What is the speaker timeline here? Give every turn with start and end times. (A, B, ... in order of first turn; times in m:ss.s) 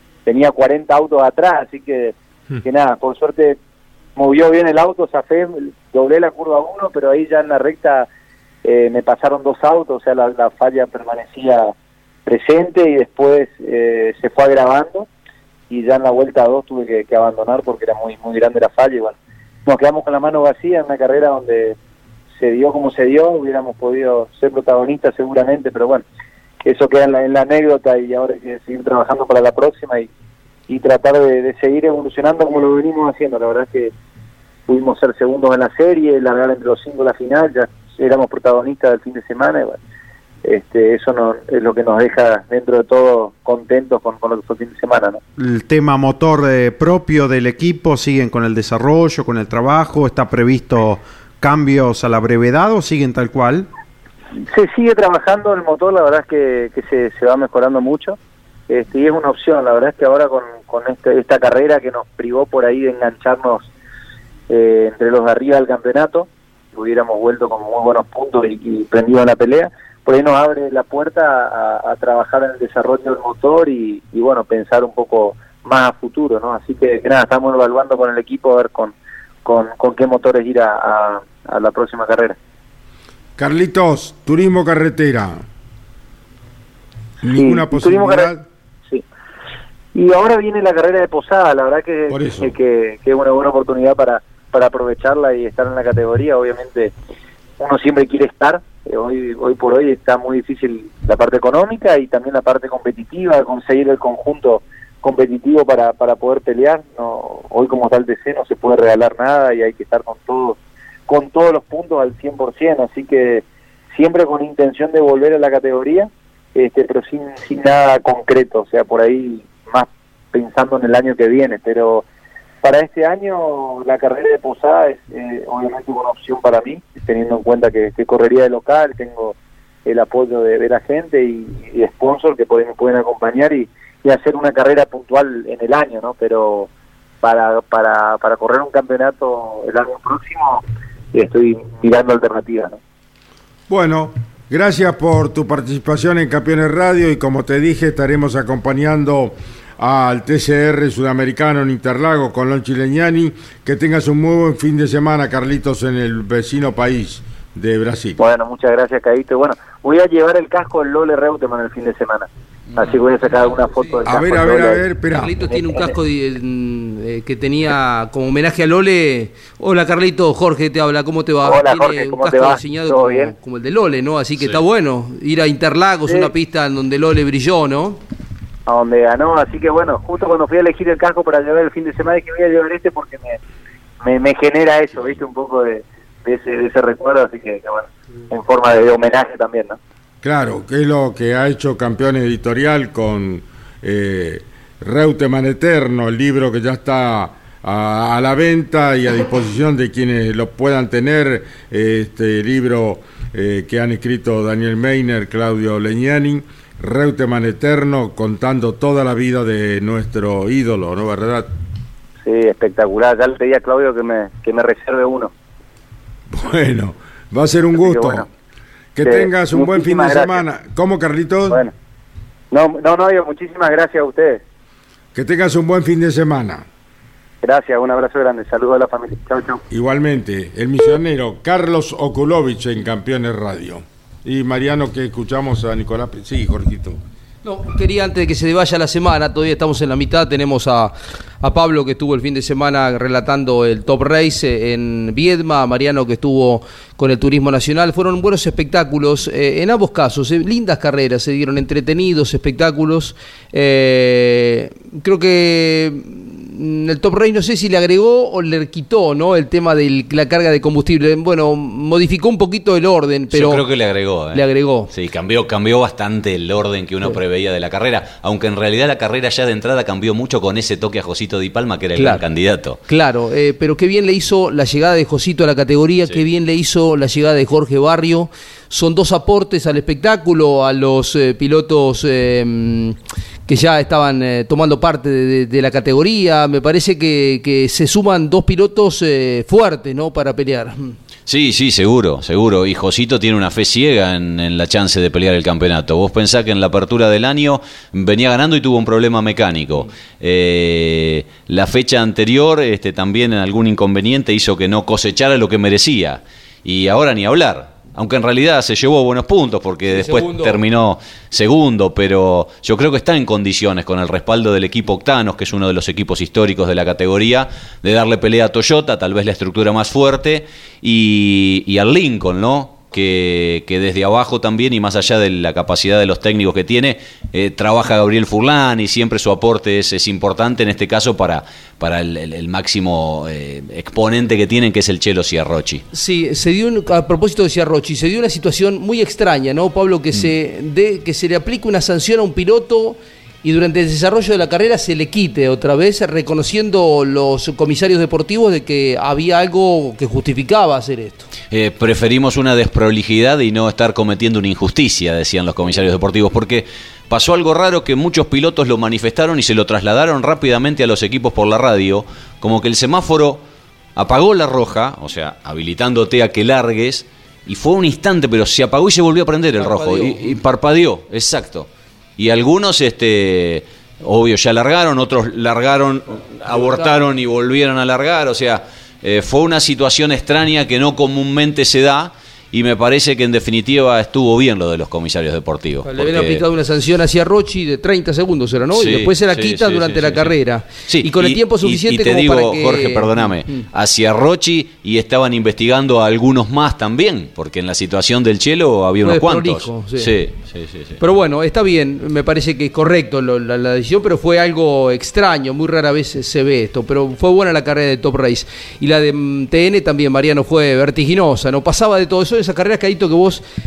0:00.2-0:03.6 A
0:04.2-0:08.1 A
0:08.6-0:11.7 A
0:12.2-0:15.1 A
0:15.7-0:21.8 A
0:22.4-0:26.0 A
0:26.6-0:30.1 A
0:30.7-0:33.9 A
0:34.7-0:39.8 A
0:40.4-0:45.2 A
0:45.4-0:53.7 B
0:54.5-0:58.2 A
0:58.7-1:03.7 A
1:04.5-1:18.9 A
1:19.4-1:22.4 A
1:23.4-1:25.4 C
1:27.2-1:28.4 C
1:27.3-1:28.3 A
1:29.9-1:36.9 A
1:32.1-1:32.5 C
1:37.6-1:50.6 A
1:51.1-2:02.0 A
2:02.6-2:16.7 A
2:17.2-2:20.6 A
2:21.1-2:22.8 A
2:23.7-2:38.2 C
2:38.2-2:44.8 A
2:42.8-2:44.0 D
2:44.0-2:45.3 C
2:45.1-2:58.0 D
2:45.4-2:45.9 A
2:51.4-2:53.3 A
2:58.7-3:03.4 A
3:04.0-3:09.8 A
3:10.2-3:31.5 C
3:32.2-3:35.3 A
3:36.3-3:38.2 C
3:37.7-3:38.2 A
3:38.9-3:41.6 C
3:39.0-3:40.4 A
3:42.5-3:44.4 A
3:45.1-3:46.6 C
3:47.4-3:49.6 A
3:49.7-3:57.0 C
3:57.4-4:23.6 D
4:23.3-4:32.8 E
4:24.3-4:24.9 D
4:32.0-4:32.2 D
4:32.9-4:43.0 D
4:43.5-4:50.9 D
4:51.3-5:35.8 E
5:09.9-5:10.6 D
5:35.9-5:51.3 D
5:51.5-6:03.4 E
6:04.0-6:26.4 E
6:09.6-6:10.3 D
6:16.5-6:16.9 D
6:25.8-6:33.6 D
6:28.7-6:41.0 E
6:39.0-6:40.1 D
6:41.0-6:53.4 D